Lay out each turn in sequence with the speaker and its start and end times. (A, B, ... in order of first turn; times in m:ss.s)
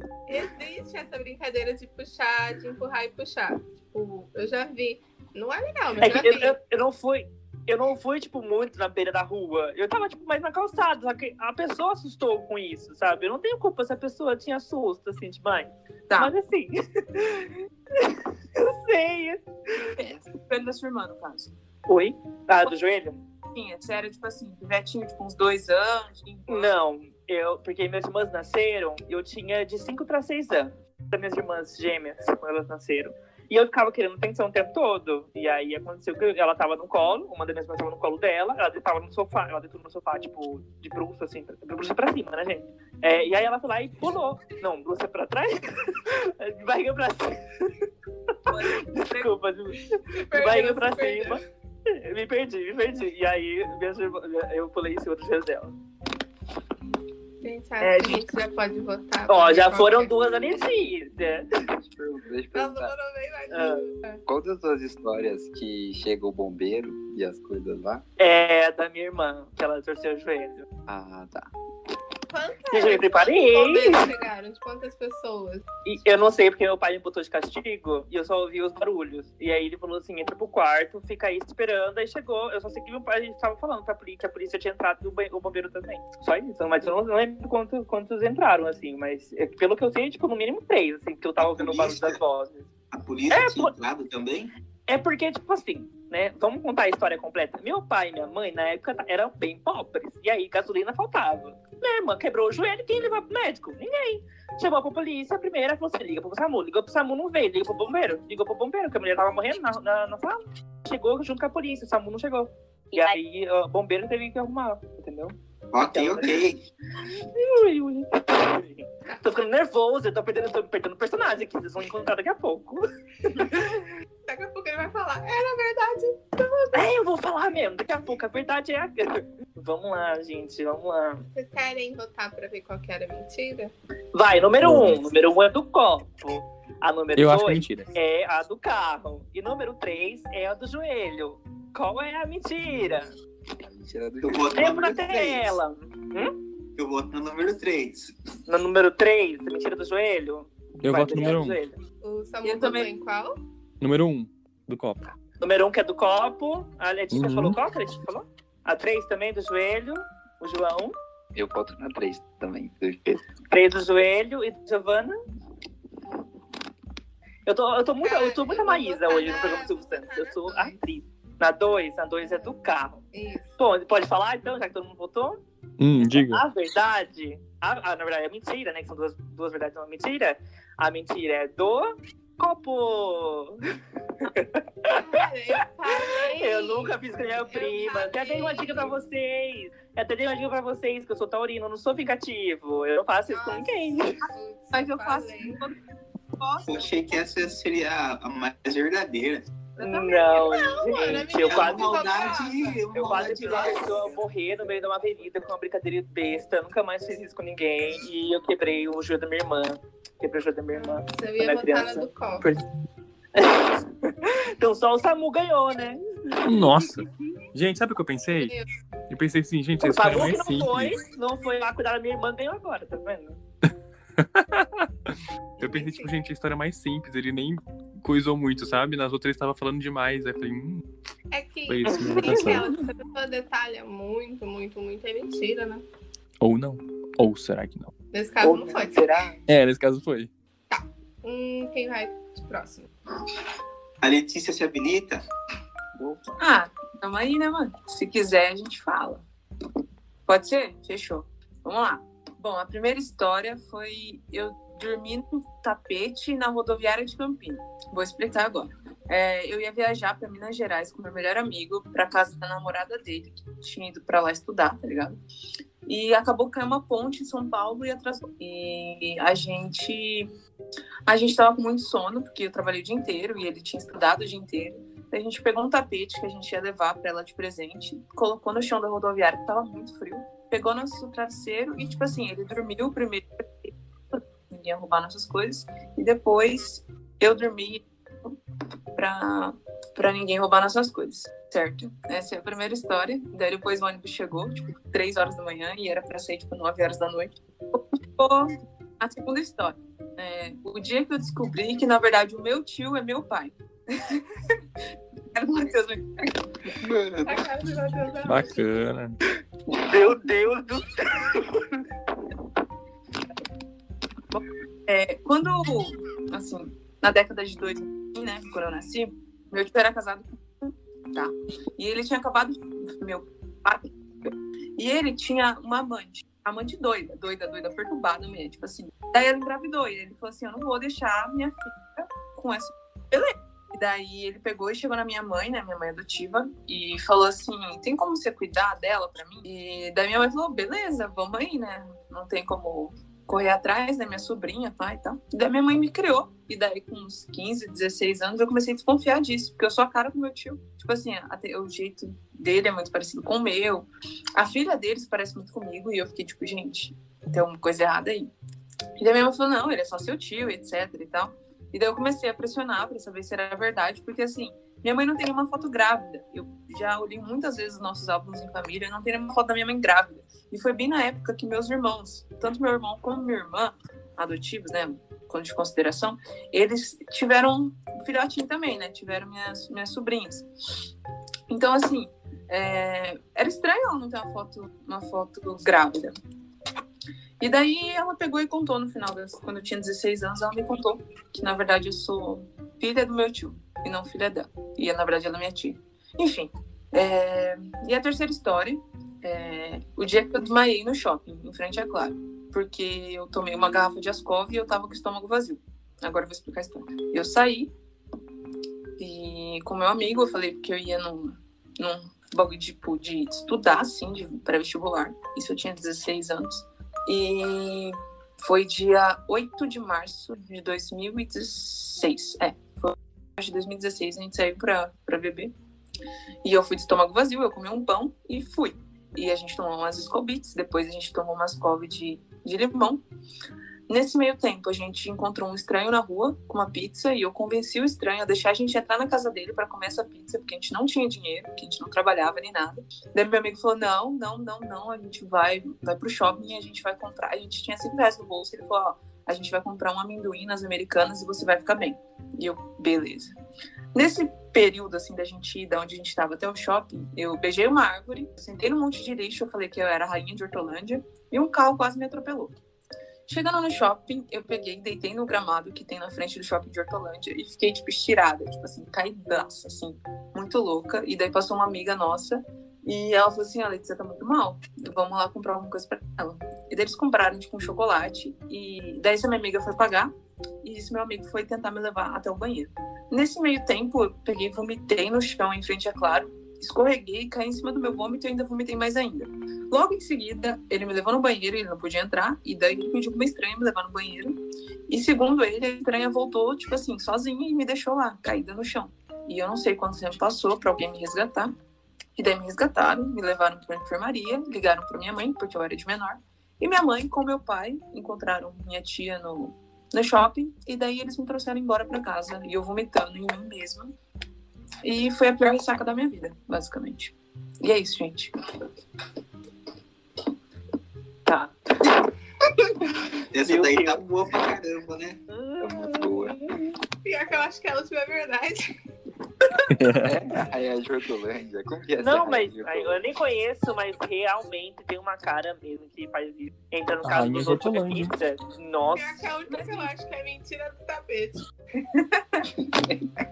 0:00.3-0:06.6 A
0:06.0-0:19.9 B
0:20.0-0:21.6 C
0:21.9-0:23.2 B
0:23.5-0:26.7 C
0:26.5-0:47.8 B
0:48.5-0:49.3 C
0:48.5-0:55.8 B
0:50.1-0:51.4 A
0:57.4-1:00.1 A
0:57.8-0:58.2 B
0:59.3-1:01.5 B
1:01.8-1:02.9 D
1:02.5-1:04.2 A
1:03.5-1:03.8 B
1:04.3-1:08.0 D
1:08.2-1:10.7 B
1:10.9-1:11.5 D
1:12.3-1:15.6 A
1:12.7-1:14.1 B
1:15.9-1:32.7 B
1:31.4-1:32.2 E
1:32.9-1:34.5 E
1:33.3-1:33.7 B
1:34.9-1:55.4 B
1:55.7-1:56.6 E
1:55.9-1:56.4 B
1:57.0-2:03.8 B
2:04.3-2:06.9 A
2:06.7-2:11.2 B
2:11.3-2:13.7 A
2:14.1-2:23.1 B
2:14.6-2:15.0 F
2:17.2-2:17.9 F
2:23.6-2:24.7 D
2:24.2-2:25.6 E
2:24.5-2:26.3 B
2:26.8-2:28.1 E
2:28.5-2:31.8 B
2:30.8-2:31.6 F
2:32.0-2:33.4 A
2:32.4-2:32.9 C
2:33.8-2:35.1 F
2:35.4-2:41.0 B
2:37.1-2:37.6 F
2:41.4-2:43.2 D
2:43.5-2:45.2 B
2:47.5-2:53.0 B
2:48.0-2:50.8 A
2:52.3-2:52.5 A
2:53.1-2:53.5 A
2:53.6-2:55.4 B
2:55.8-2:56.4 F
2:56.1-3:03.6 B
3:04.2-3:05.2 B
3:04.9-3:09.0 A
3:05.9-3:14.2 B
3:13.3-3:15.6 A
3:14.7-3:15.8 C
3:16.4-3:17.2 C
3:16.6-3:19.4 E
3:19.8-3:22.8 A
3:19.8-3:21.9 B
3:21.4-3:24.0 E
3:22.9-3:32.6 B
3:30.7-3:32.5 A
3:33.4-3:36.6 B
3:36.4-3:38.5 F
3:38.4-3:38.7 A
3:39.1-3:41.0 F
3:39.8-3:43.4 B
3:44.2-3:50.8 F
3:45.6-3:46.1 A
3:51.3-3:55.8 A
3:51.7-3:52.7 F
3:51.9-3:52.5 B
3:56.4-3:57.9 F
3:58.1-3:59.2 A
3:58.4-3:59.4 B
3:59.5-4:00.3 F
4:00.7-4:02.9 A
4:04.0-4:05.2 E
4:06.4-4:09.2 C
4:10.3-4:25.2 C
4:25.9-4:30.3 C
4:31.1-4:48.4 C
4:49.0-5:04.6 C
5:05.3-5:06.4 C
5:06.7-5:07.5 D
5:07.2-5:08.6 A
5:08.2-5:09.2 F
5:09.7-5:11.7 B
5:14.3-5:58.3 C
5:59.0-6:20.5 C
6:21.5-6:26.1 C
6:27.4-6:47.7 C
6:49.0-7:05.5 C
7:06.4-7:13.0 C
7:13.9-7:33.3 C
7:33.9-7:42.6 C
7:43.3-8:00.1 C
8:00.6-8:21.5 C
8:22.2-8:33.9 C
8:34.8-8:38.3 C
8:41.3-8:41.6 B
8:43.3-8:45.2 E
8:43.4-8:44.0 B
8:45.3-8:46.6 B
8:45.6-8:46.4 D
8:47.0-8:48.7 A
8:49.7-8:50.1 F
8:49.8-8:53.0 D
8:52.0-8:59.2 B
8:57.0-8:58.1 F
8:58.9-9:01.4 A
8:59.5-8:59.9 C
9:01.9-9:02.5 C